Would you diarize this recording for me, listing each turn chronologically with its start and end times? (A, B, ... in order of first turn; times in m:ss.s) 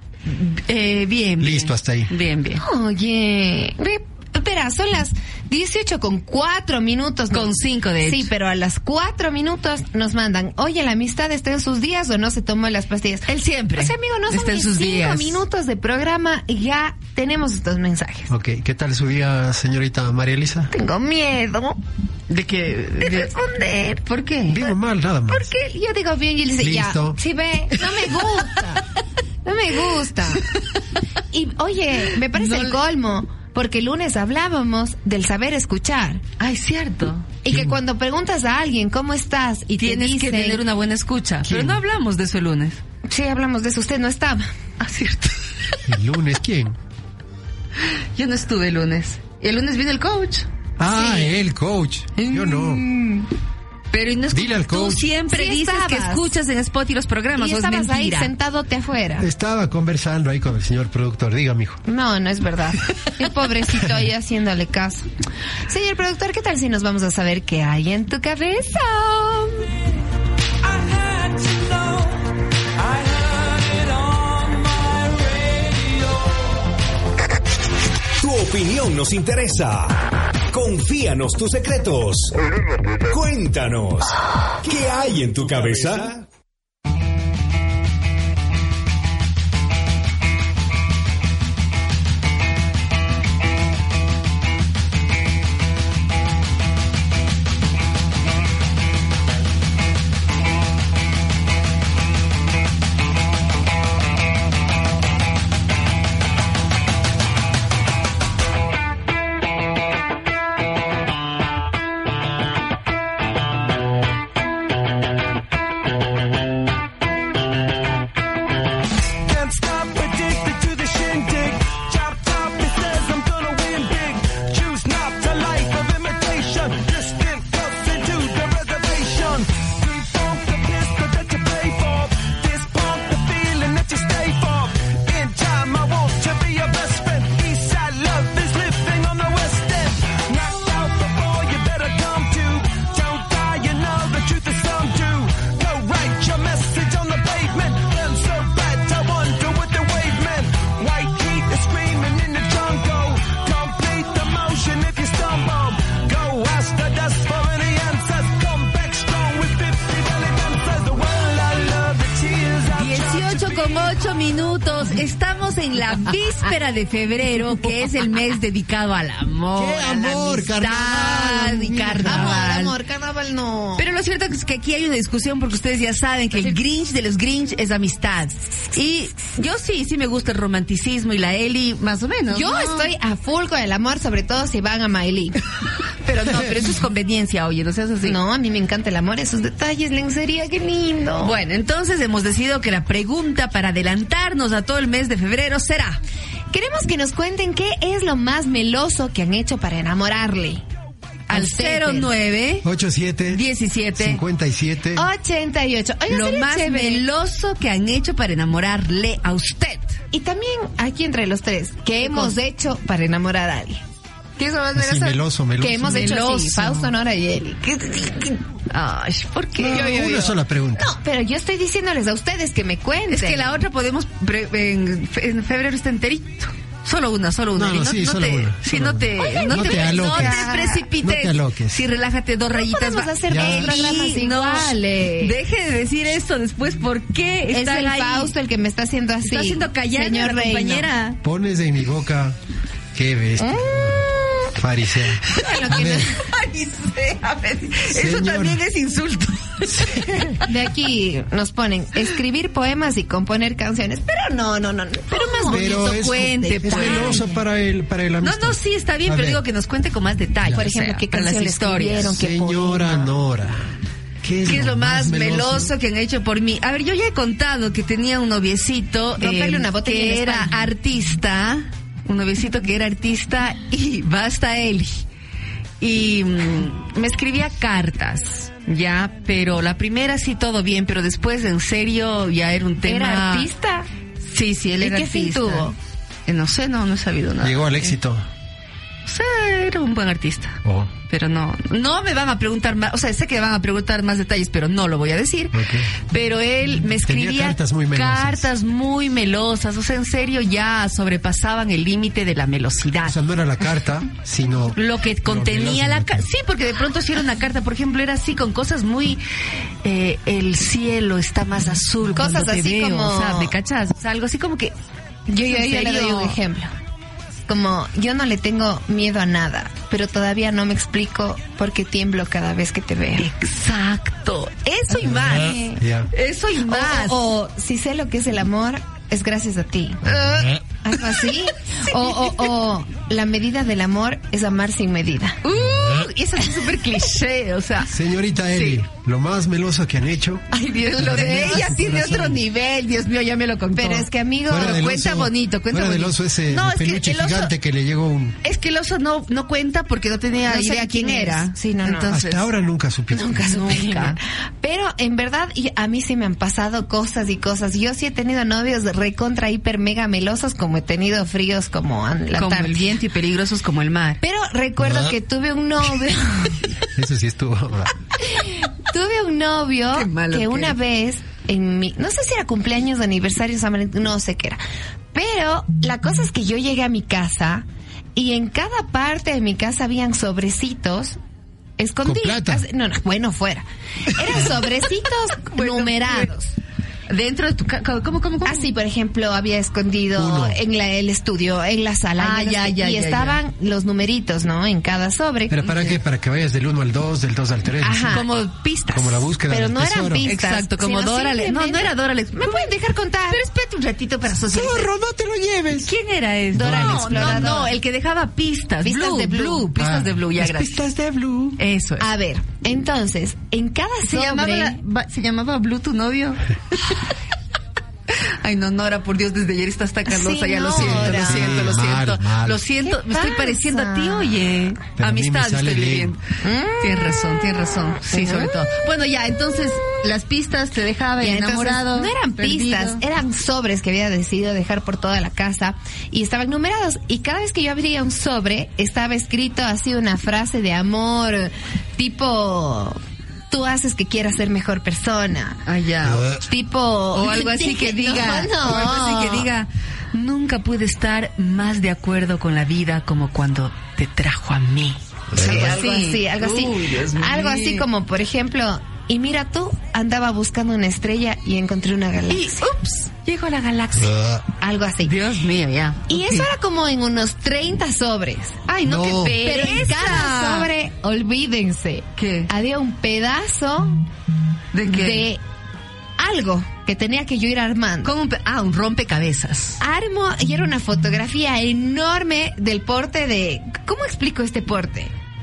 0:00.3-0:02.6 A
0:01.4-0:02.1 B
0:02.6-0:18.3 C
0:07.3-0:08.3 A
0:13.3-0:15.4 A
0:18.3-0:20.7 B
0:20.7-0:21.8 C
0:22.3-0:23.4 A
0:23.0-0:24.0 C
0:24.0-0:24.6 A
0:24.5-0:25.5 B
0:25.3-0:28.8 C
0:26.6-0:27.2 B
0:29.4-0:30.4 C
0:31.3-0:36.2 C
0:32.3-0:32.8 A
0:36.4-0:37.3 A
0:37.4-0:40.6 C
0:37.5-0:37.8 B
0:39.8-0:42.8 A
0:41.4-0:41.8 B
0:43.1-0:44.5 C
0:44.8-0:45.8 A
0:45.9-0:46.8 B
0:48.2-0:50.5 A
0:50.8-0:52.8 B
0:50.9-0:51.3 C
0:52.2-0:53.3 C
0:53.9-0:58.3 A
0:54.3-0:55.1 B
0:55.3-0:56.4 C
0:57.4-0:59.3 C
0:59.2-1:01.8 B
1:01.9-1:05.1 C
1:05.7-1:09.7 C
1:10.8-1:12.0 D
1:18.2-1:20.0 E
1:20.5-1:22.4 E
1:23.0-1:26.2 E
1:59.2-2:43.9 D
2:42.8-2:52.7 A
2:49.6-2:52.4 B
2:52.0-2:53.9 C
2:53.8-3:02.9 A
3:02.3-3:05.4 C
3:06.0-3:08.2 A
3:08.0-3:11.4 C
3:11.2-3:16.0 A
3:16.5-3:20.6 C
3:21.3-3:22.7 A
3:21.3-3:22.1 C
3:22.6-3:23.4 B
3:23.3-3:24.2 A
3:24.0-3:25.0 B
3:25.0-3:27.0 C
3:26.1-3:30.0 A
3:30.1-3:33.8 C
3:32.0-3:32.4 A
3:34.4-3:38.4 C
3:34.8-3:36.2 B
3:35.8-3:36.9 A
3:38.7-3:39.9 A
3:39.6-3:40.9 B
3:39.6-3:43.5 C
3:43.1-3:58.3 A
3:47.6-3:51.8 B
3:49.2-3:50.8 C
3:52.6-3:55.4 C
3:53.3-3:53.7 B
3:57.5-4:00.9 C
3:59.2-4:01.2 A
4:01.2-4:02.4 B
4:02.9-4:06.1 B
4:03.4-4:04.5 C
4:05.4-4:06.2 C
4:05.9-4:10.4 A
4:07.9-4:08.6 B
4:09.6-4:10.3 B
4:10.4-4:17.4 C
4:15.1-4:17.3 A
4:15.5-4:19.4 B
4:18.2-4:22.2 A
4:20.5-4:23.1 C
4:22.1-4:25.7 B
4:24.5-4:35.0 A
4:29.2-4:30.6 C
4:35.8-4:43.5 A
4:42.8-4:43.9 C
4:44.2-4:45.7 A
4:44.8-4:45.8 C
4:46.3-4:48.0 A
4:47.4-4:48.3 B
4:49.1-5:03.2 A
4:50.6-4:50.9 B
4:55.5-4:55.9 B
4:57.0-4:58.5 B
5:03.0-5:06.3 B
5:04.8-5:09.2 A
5:09.8-5:14.7 A
5:12.2-5:13.5 C
5:15.3-5:16.7 C
5:15.4-5:16.4 A
5:17.5-5:23.3 C
5:23.2-5:25.6 A
5:25.0-5:25.8 C
5:25.2-5:26.1 B
5:26.1-5:27.2 A
5:26.6-5:35.4 C
5:31.9-5:32.4 A
5:35.4-5:37.9 A
5:37.8-5:42.4 B
5:38.5-5:38.8 A
5:40.6-5:41.7 C
5:40.6-5:47.5 A
5:43.8-5:44.9 C
5:44.5-5:48.4 B
5:48.4-5:52.5 A
5:50.5-5:52.1 C
5:52.1-5:53.6 B
5:53.1-6:02.9 C
5:53.4-5:54.2 A
6:02.4-6:04.2 A
6:04.2-6:06.7 C
6:04.8-6:05.2 B
6:07.0-6:07.9 B
6:08.2-6:14.6 C
6:09.9-6:10.8 A
6:15.1-6:17.6 C
6:18.2-6:21.2 C
6:21.8-6:26.5 C
6:22.0-6:22.6 B
6:25.5-6:26.3 A
6:27.1-6:28.7 A
6:28.4-6:36.0 C
6:30.2-6:30.6 B
6:32.2-6:33.4 A
6:35.5-6:38.3 B
6:37.8-6:38.3 C
6:38.1-6:39.3 A
6:38.9-6:40.3 B
6:39.5-6:43.4 C
6:40.2-6:42.7 A
6:43.3-6:44.9 A
6:44.5-6:45.9 B
6:45.8-6:50.9 A
6:46.5-6:47.7 B
6:46.6-6:47.7 C
6:48.8-6:49.7 C
6:49.8-6:51.6 B
6:51.6-6:52.1 A
6:52.0-6:54.8 C
6:54.1-6:56.4 A
6:58.4-7:06.2 A
7:00.1-7:01.8 C
7:00.7-7:02.6 B
7:02.8-7:04.6 C
7:05.0-7:06.2 B
7:06.4-7:07.5 C
7:06.8-7:13.0 A
7:08.1-7:08.6 C
7:11.2-7:25.6 C
7:25.7-7:26.3 A
7:26.0-7:26.4 B
7:26.5-7:29.5 C
7:27.1-7:37.9 A
7:35.3-7:35.8 B
7:35.4-7:42.7 C
7:42.3-7:44.2 A
7:44.0-7:44.4 B
7:44.6-7:45.1 C
7:45.0-7:46.5 A
7:46.1-7:48.7 C
7:48.7-7:50.7 A
7:48.8-7:49.4 B
7:49.3-7:54.0 C
7:52.2-7:52.5 A
7:54.7-7:55.3 A
7:54.9-7:55.4 C
7:56.2-7:58.1 C
7:58.0-7:59.8 A
7:59.8-8:05.1 C